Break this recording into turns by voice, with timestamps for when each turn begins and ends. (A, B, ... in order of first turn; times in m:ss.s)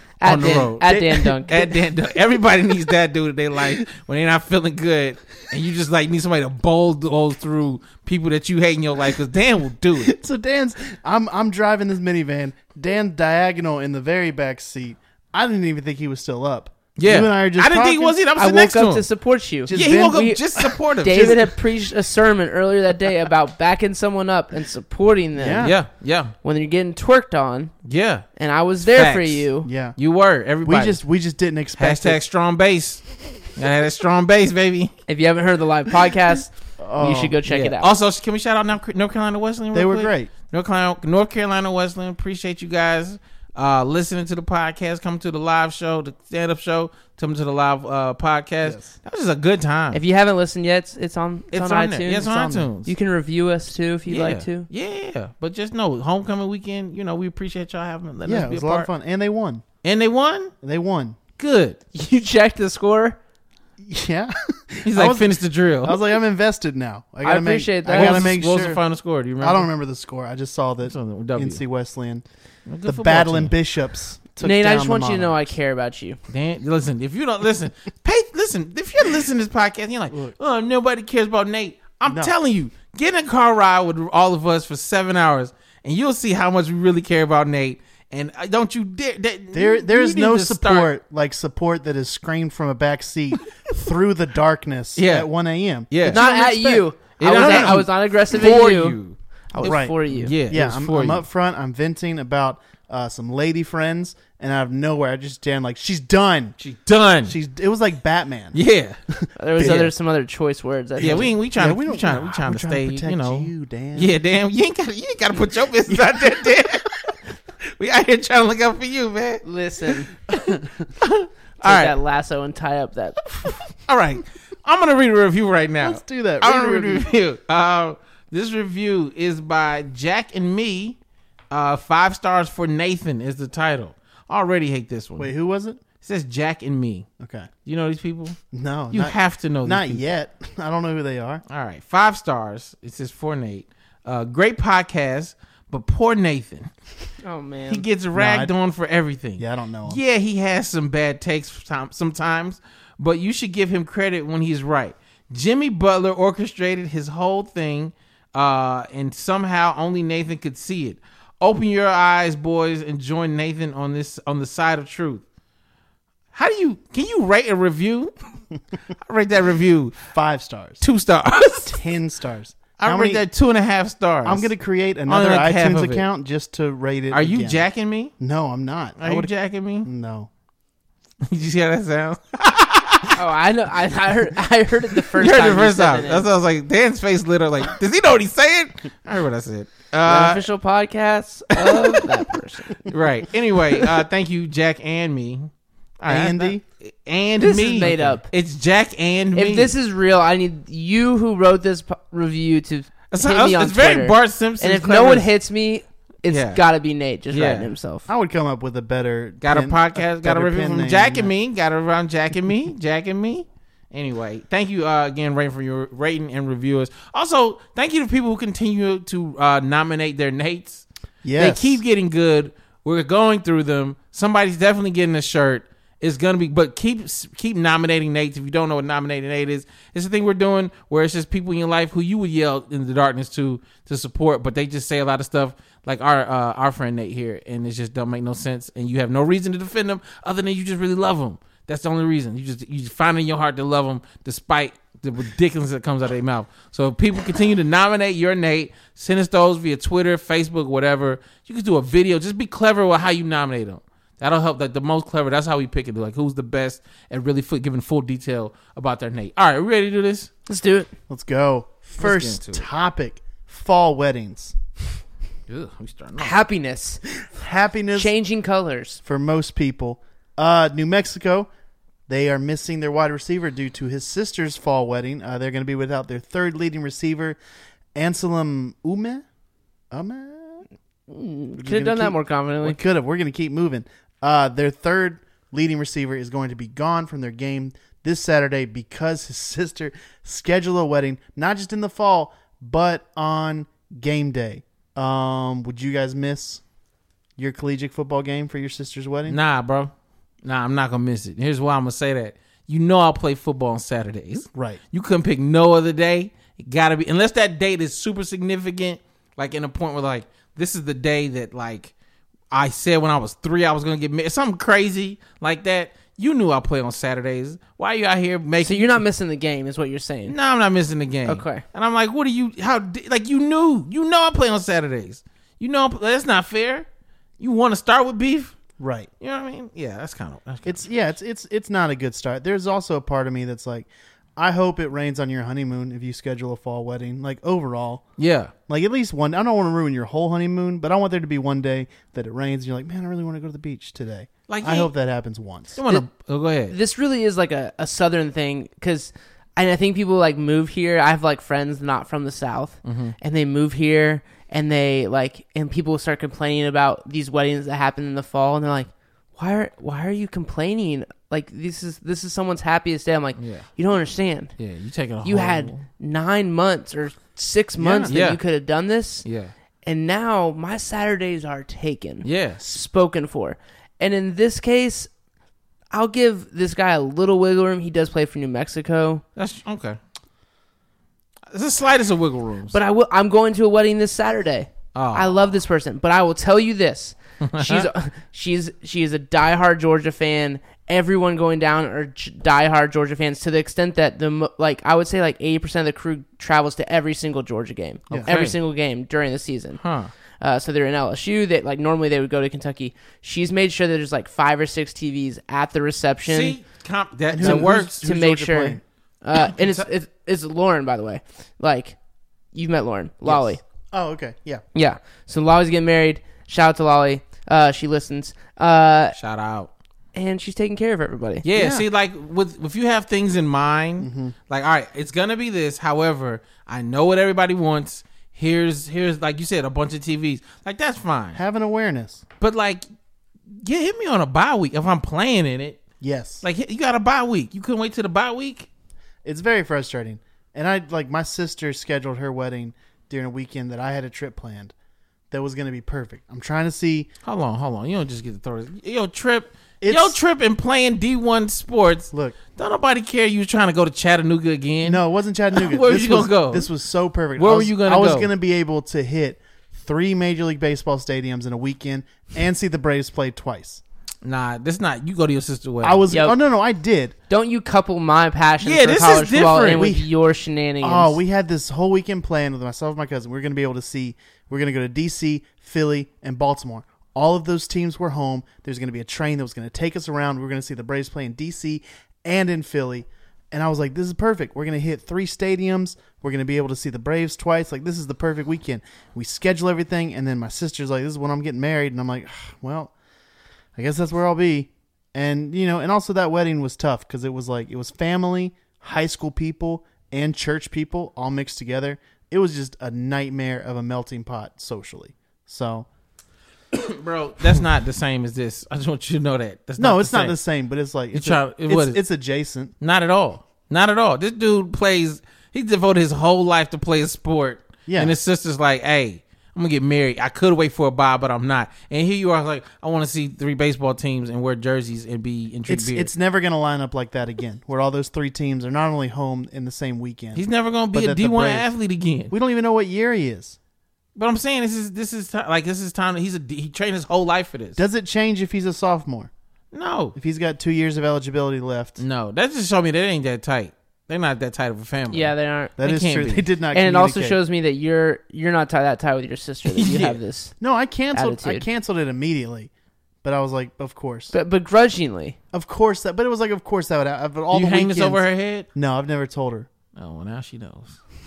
0:00.2-0:01.7 A
0:00.2-0:10.1 B
0:00.4-0:01.4 C
0:10.0-0:18.2 C
0:17.0-0:19.0 B
0:18.4-0:25.9 A
0:19.6-0:20.3 C
0:19.7-0:21.5 B
0:25.4-0:25.7 C
0:25.6-0:26.3 B
0:26.4-0:27.7 A
0:27.8-0:28.2 B
0:28.4-0:29.7 A
0:28.8-0:29.4 B
0:29.6-0:30.0 C
0:30.0-0:31.0 B
0:30.6-0:32.2 C
0:31.8-0:34.9 B
0:35.1-0:37.9 A
0:36.8-0:37.4 C
0:37.4-0:50.0 B
0:39.7-0:40.3 C
0:48.6-0:48.9 C
0:49.9-0:54.7 A
0:51.5-0:52.9 B
0:52.2-0:52.7 C
0:54.1-0:58.9 B
0:58.2-0:59.6 C
0:59.8-1:00.5 B
1:00.6-1:01.2 C
1:01.4-1:01.8 B
1:01.9-1:03.2 A
1:03.8-1:08.8 C
1:04.8-1:06.0 B
1:07.2-1:08.4 A
1:07.9-1:09.7 B
1:09.4-1:12.2 C
1:10.8-1:11.6 B
1:12.6-1:13.5 B
1:12.8-1:15.3 C
1:14.4-1:16.2 A
1:16.3-1:30.9 B
1:22.1-1:22.3 C
1:29.5-1:37.8 C
1:35.0-1:35.3 B
1:35.9-1:36.2 B
1:36.0-1:39.0 A
1:37.2-1:41.2 B
1:39.5-1:40.3 A
1:39.6-1:46.6 C
1:46.6-1:47.3 B
1:47.2-1:48.6 C
1:48.5-1:49.0 B
1:49.1-1:49.9 C
1:49.4-1:51.3 A
1:49.6-1:49.8 B
1:51.0-1:57.1 B
1:51.0-1:54.1 C
1:55.9-1:56.2 C
1:57.8-2:00.4 B
1:59.4-2:00.1 A
2:01.0-2:01.9 B
2:01.6-2:03.3 A
2:03.4-2:11.0 B
2:05.8-2:07.1 C
2:11.5-2:15.3 B
2:15.2-2:15.8 C
2:16.0-2:17.1 B
2:17.2-2:17.5 C
2:17.6-2:18.4 B
2:18.5-2:21.4 C
2:18.9-2:20.1 B
2:21.5-2:26.7 B
2:27.2-2:27.8 A
2:27.7-2:45.2 B
2:28.1-2:28.5 C
2:29.4-2:30.0 C
2:46.3-2:48.1 B
2:49.0-2:50.0 B
2:50.1-2:50.8 C
2:50.8-2:51.8 B
2:51.6-2:53.2 C
2:52.8-2:54.5 B
2:54.2-2:57.6 C
2:55.1-2:56.0 B
2:57.1-2:58.1 B
2:58.2-2:59.3 C
2:59.0-2:59.9 B
2:59.8-3:00.3 C
3:01.2-3:03.2 B
3:03.1-3:06.2 A
3:05.2-3:10.4 B
3:10.0-3:12.9 A
3:11.5-3:12.3 B
3:12.8-3:19.7 B
3:16.1-3:16.6 C
3:17.4-3:18.3 A
3:17.9-3:18.1 C
3:19.3-3:28.0 A
3:23.1-3:25.3 B
3:26.3-3:26.6 B
3:27.3-3:27.7 B
3:28.1-3:31.3 C
3:29.4-3:40.8 B
3:41.2-3:41.8 C
3:41.4-4:20.3 B
4:20.5-4:20.9 A
4:21.1-4:24.6 C
4:22.0-4:22.7 B
4:25.5-4:26.4 B
4:26.2-4:27.0 A
4:27.3-4:28.1 C
4:27.9-4:29.0 A
4:29.0-4:31.5 C
4:32.1-4:37.4 C
4:37.9-4:39.2 C
4:39.9-4:40.6 C
4:41.1-4:42.8 A
4:41.6-4:56.6 C
4:57.4-4:59.4 C
4:59.3-4:59.9 B
5:00.4-5:11.9 B
5:04.5-5:04.8 C
5:12.5-5:19.0 B
5:18.6-5:20.3 A
5:20.3-5:26.9 B
5:21.2-5:21.6 A
5:27.4-5:28.6 B
5:28.8-5:29.1 C
5:29.2-5:30.9 B
5:30.6-5:38.0 C
5:38.2-5:38.5 B
5:38.7-5:45.8 C
5:44.5-5:44.9 B
5:45.8-5:46.8 B
5:46.7-6:04.5 A
5:52.8-5:53.1 B
6:03.4-6:03.6 B
6:04.6-6:05.8 B
6:05.2-6:09.2 A
6:07.8-6:08.1 C
6:08.1-6:08.4 B
6:09.2-6:09.5 B
6:09.8-6:15.1 A
6:12.2-6:12.6 B
6:15.9-6:19.2 A
6:19.4-6:20.0 B
6:21.5-6:22.8 B
6:22.7-6:39.8 A
6:24.9-6:25.4 B
6:27.4-6:27.9 B
6:38.2-6:38.6 B
6:39.8-6:40.1 B
6:40.4-6:46.6 A
6:46.2-6:47.9 B
6:47.3-6:48.8 C
6:47.4-6:52.0 A
6:49.6-6:49.8 B
6:52.5-6:53.6 A
6:53.3-6:54.6 C
6:54.7-6:59.2 A
6:59.1-6:59.7 B
7:00.1-7:01.4 A
7:01.4-7:11.4 B
7:01.5-7:01.8 C
7:04.0-7:04.3 C
7:11.3-7:12.2 C
7:12.4-7:12.8 B
7:13.5-7:15.8 B
7:16.0-7:16.4 C
7:16.4-7:18.7 B
7:19.2-7:24.7 C
7:25.3-7:27.1 C
7:27.2-7:35.0 B
7:29.8-7:30.2 C
7:32.1-7:32.4 C
7:34.8-7:43.8 C
7:35.5-7:36.7 B
7:37.4-7:38.3 B
7:44.2-7:46.0 B
7:45.8-7:47.1 C
7:46.1-7:46.4 A
7:47.3-7:51.2 A
7:48.6-7:49.9 B
7:49.8-7:50.1 C
7:50.8-8:12.9 C
8:13.8-8:25.9 C
8:26.7-8:30.4 B
8:29.8-8:32.7 C
8:31.1-8:32.0 B
8:32.8-8:46.1 B
8:37.8-8:38.2 C
8:45.7-8:51.7 C
8:50.3-8:52.3 B
8:52.3-8:53.6 C
8:54.1-8:57.8 B
8:57.8-8:59.3 C
8:59.7-9:00.2 B
9:00.1-9:02.0 C
9:02.0-9:06.5 B
9:05.1-9:05.7 A
9:05.8-9:07.4 C
9:06.7-9:10.5 A
9:09.6-9:10.2 B
9:10.6-9:12.7 C
9:11.1-9:11.6 A
9:13.2-9:14.3 C
9:14.3-9:15.4 A
9:15.5-9:19.7 C
9:17.5-9:18.7 B
9:19.9-9:21.0 B